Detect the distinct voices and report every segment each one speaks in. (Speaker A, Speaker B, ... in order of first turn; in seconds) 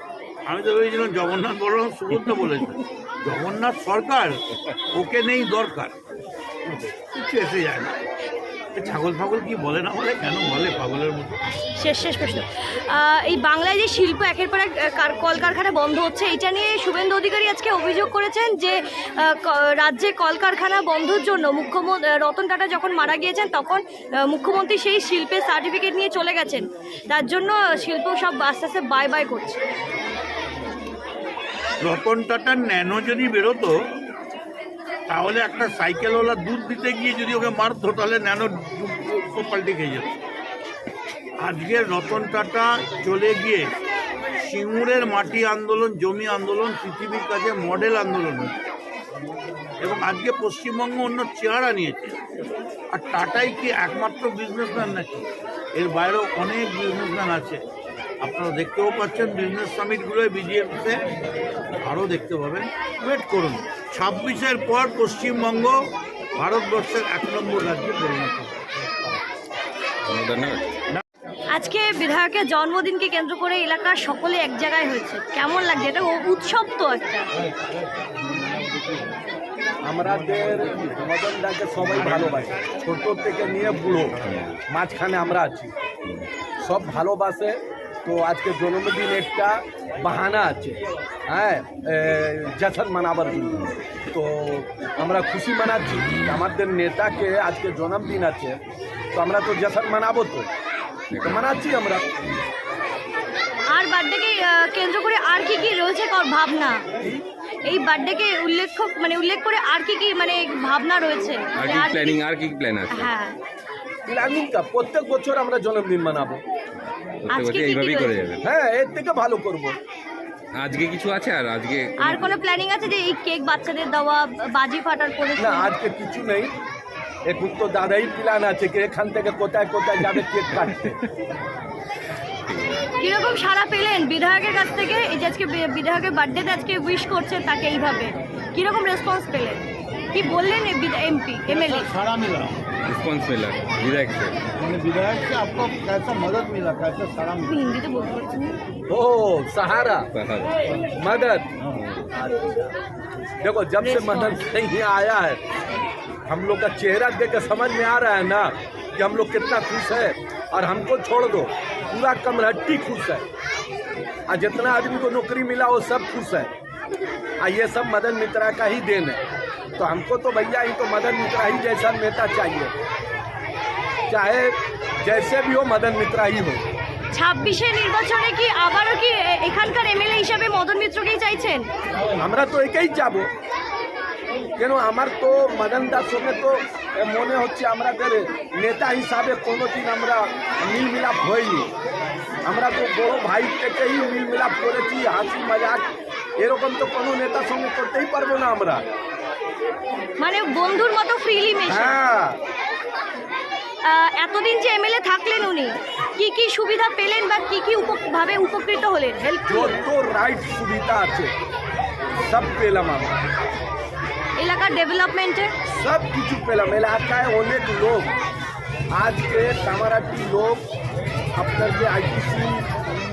Speaker A: 0.5-6.0, 6.7-8.0, 8.7-11.4, 31.8-33.7, 35.1-40.2, 41.4-43.7, 44.4-48.6, 49.8-52.2, 52.9-57.6, 58.2-61.0, 61.8-65.8, 66.4-68.7, 141.5-142.6, 144.6-147.7
Speaker B: 11.8-29.6, 71.5-77.3, 103.7-106.8, 107.7-112.2, 112.9-113.4, 117.3-118.2, 122.0-125.7, 133.0-139.6, 140.1-141.9, 147.5-148.6, 153.8-154.4, 177.1-181.7, 200.2-201.9, 203.8-209.8, 214.4-215.5
Speaker C: 70.1-70.6, 84.3-84.5, 101.1-101.4, 111.6-113.1, 117.3-118.4, 120.5-122.4, 132.5-132.8, 142.8-144.4, 150.1-150.6, 151.8-152.1
Speaker D: 79.8-84.2, 84.7-85.7, 86.6-98.6, 99.1-100.5, 101.2-102.1, 114.1-116.4, 118.4-119.8, 125.4-126.5, 127.3-131.0, 148.9-150.1, 150.9-151.5, 153.4-155.4, 156.3-163.2, 164.3-166.5, 167.4-169.2, 169.8-172.7, 174.1-176.6, 182.2-183.3, 184.6-191.7, 192.5-195.8, 196.4-198.9, 201.7-202.4, 209.5-211.3, 212.2-213.2, 215.7-218.1, 218.9-220.6, 221.4-222.7